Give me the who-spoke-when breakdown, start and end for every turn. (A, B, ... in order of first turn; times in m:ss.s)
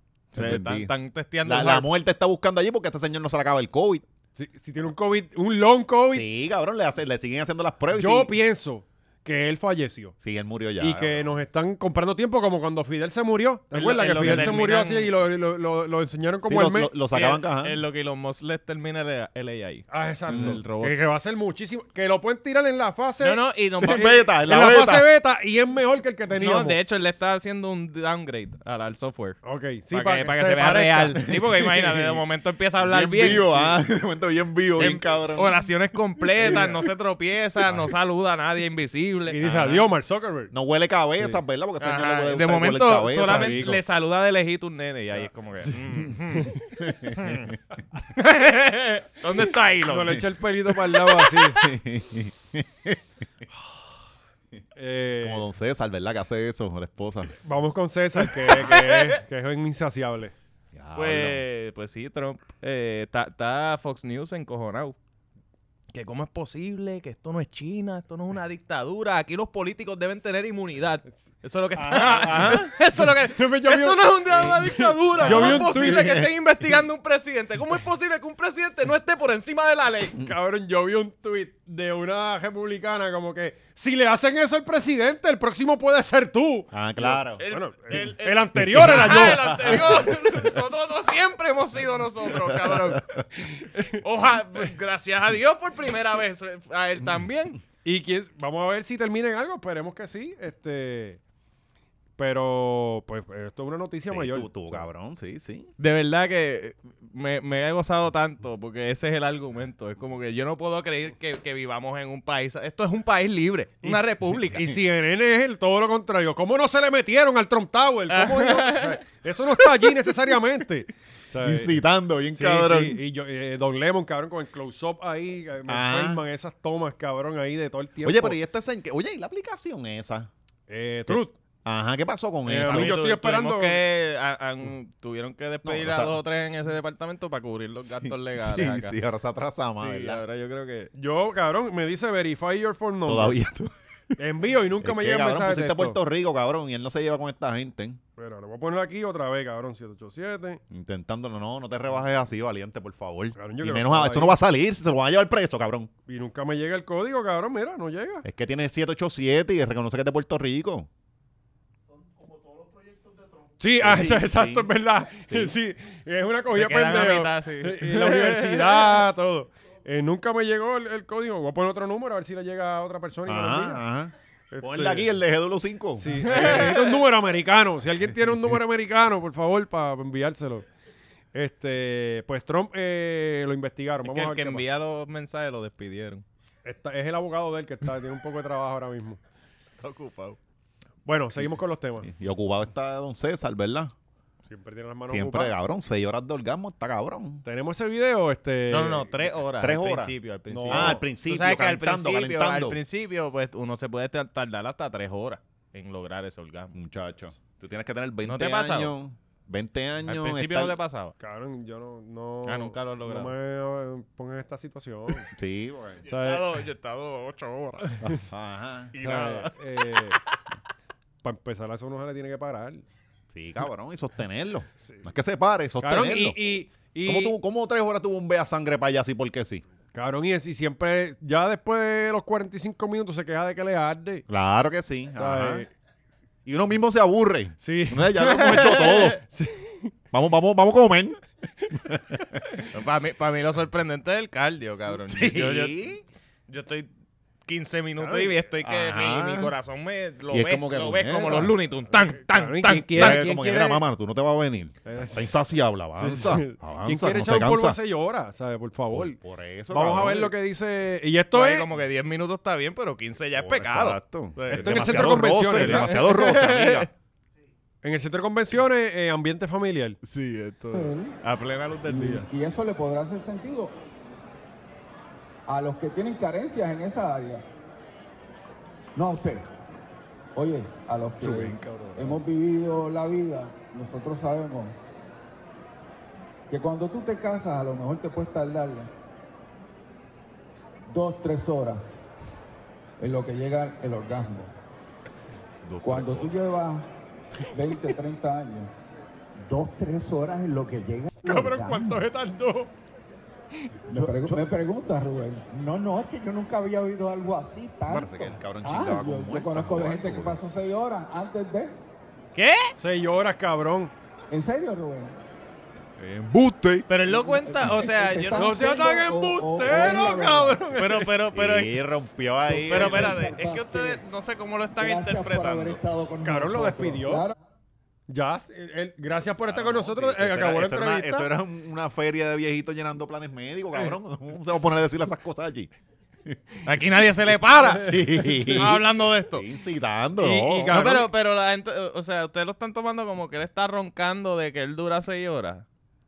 0:00.3-0:00.9 A
0:00.3-0:01.9 B
0:01.4-0:04.0 A
0:04.4-0:06.2 C
0:06.0-0:08.3 A
0:07.9-0:10.1 C
0:10.2-0:11.3 A
0:10.8-0:16.9 C
0:13.7-0:15.1 B
0:14.2-0:14.6 A
0:16.4-0:17.8 A
0:17.1-0:21.0 B
0:19.9-0:23.4 C
0:20.3-0:20.6 A
0:23.2-0:24.2 B
0:23.8-0:25.1 A
0:24.0-0:26.8 C
0:26.4-0:29.4 B
0:29.4-0:31.2 C
0:29.9-0:33.8 B
0:31.2-0:32.2 A
0:32.8-0:35.5 A
0:34.8-0:39.8 B
0:36.4-0:36.7 A
0:36.4-0:36.8 C
0:39.3-0:40.5 C
0:40.5-0:43.7 A
0:41.8-0:46.6 B
0:43.2-0:43.8 C
0:46.8-0:47.6 A
0:47.1-0:47.5 B
0:48.1-0:50.2 B
0:49.8-0:51.7 C
0:51.5-0:53.0 A
0:54.7-0:55.4 C
0:55.2-0:57.3 A
0:57.4-1:00.3 C
0:58.6-0:59.2 B
1:00.7-1:01.4 A
1:00.9-1:05.0 B
1:05.9-1:20.2 B
1:11.8-1:12.7 A
1:13.0-1:16.0 C
1:14.3-1:14.6 A
1:15.1-1:16.3 A
1:20.2-1:30.1 C
1:26.7-1:27.4 A
1:27.4-1:33.0 B
1:28.7-1:30.4 A
1:32.3-1:33.2 A
1:33.4-1:34.0 C
1:34.0-1:37.6 B
1:37.8-1:41.2 C
1:42.2-1:44.8 C
1:44.1-1:45.7 A
1:45.8-1:54.6 B
1:53.8-2:01.8 C
1:58.1-1:59.0 B
2:01.4-2:03.0 A
2:02.3-2:08.4 C
2:05.7-2:06.2 A
2:08.0-2:10.3 A
2:10.7-2:11.3 C
2:11.1-2:13.0 A
2:12.4-2:13.8 C
2:12.6-2:19.0 B
2:15.6-2:16.2 A
2:18.0-2:20.2 A
2:19.8-2:20.9 B
2:20.9-2:23.4 C
2:23.0-2:24.1 A
2:24.2-2:26.0 C
2:24.8-2:28.0 A
2:28.2-2:30.6 C
2:30.7-2:35.9 A
2:33.4-2:34.4 C
2:36.1-2:38.2 C
2:38.2-2:40.9 A
2:42.3-2:43.2 A
2:43.6-2:53.8 C
2:43.8-2:44.7 A
2:45.3-2:45.5 A
2:46.5-2:49.0 B
2:53.2-2:56.6 A
2:54.5-2:55.1 C
2:56.0-3:00.7 C
2:56.2-2:57.0 B
3:01.3-3:04.6 C
3:04.0-3:06.2 B
3:06.6-3:09.2 C
3:09.8-3:10.4 B
3:11.0-3:12.1 C
3:12.0-3:13.9 A
3:14.5-3:15.5 C
3:15.1-3:17.4 A
3:17.4-3:19.2 C
3:18.7-3:26.8 B
3:19.6-3:20.1 A
3:20.5-3:21.0 C
3:20.7-3:22.8 A
3:26.7-3:30.8 A
3:28.2-3:28.9 B
3:30.0-3:31.1 B
3:31.2-3:35.3 C
3:32.4-3:33.3 B
3:35.3-3:36.0 A
3:36.0-3:38.0 B
3:36.1-3:36.4 C
3:38.0-3:38.9 A
3:38.9-3:40.3 B
3:39.0-3:40.2 C
3:41.2-3:42.8 C
3:43.3-3:46.4 A
3:45.8-3:47.4 C
3:47.0-3:49.6 A
3:49.9-3:54.2 C
3:54.3-3:55.6 A
3:55.2-3:55.7 C
3:56.4-3:59.2 A
3:57.6-3:59.9 C
3:58.2-3:59.2 B
4:00.1-4:01.2 A
4:01.7-4:02.4 A
4:02.6-4:05.9 B
4:05.0-4:06.0 A
4:06.5-4:06.9 B
4:07.4-4:13.2 B
4:08.0-4:08.4 C
4:08.6-4:09.5 A
4:10.3-4:11.5 A
4:12.2-4:13.8 C
4:12.9-4:17.8 A
4:14.8-4:15.2 C
4:15.9-4:19.2 C
4:18.9-4:20.3 A
4:19.7-4:21.7 C
4:21.3-4:26.9 B
4:23.4-4:26.9 A
4:24.5-4:26.0 C
4:27.8-4:30.0 C
4:30.0-4:32.3 B
4:30.7-4:31.1 D
4:31.9-4:33.8 D
4:35.5-4:37.4 D
4:38.9-4:39.4 D
4:40.3-4:44.8 D
4:41.2-4:42.2 A
4:46.5-4:48.9 D
4:50.9-4:51.8 D
4:53.0-4:54.5 D
4:55.6-4:56.3 A
4:55.8-4:56.9 D
4:57.5-4:58.7 D
4:59.4-5:02.0 D
5:01.2-5:02.7 C
5:03.9-5:11.8 D
5:04.0-5:04.4 A
5:07.9-5:10.4 A
5:12.3-5:12.7 B
5:12.8-5:13.9 C
5:14.3-5:15.1 D
5:16.0-5:16.9 A
5:16.9-5:18.6 B
5:17.1-5:20.6 D
5:18.4-5:21.1 C
5:20.8-5:21.7 B
5:21.3-5:23.3 A
5:22.5-5:24.0 D
5:22.6-5:25.8 B
5:24.8-5:27.3 D
5:26.2-5:27.3 C
5:28.1-5:31.3 C
5:29.4-5:35.7 A
5:36.2-5:36.6 A
5:36.6-5:39.4 B
5:37.6-5:40.9 A
5:38.0-5:38.6 C
5:40.2-5:41.1 C
5:40.7-5:45.6 B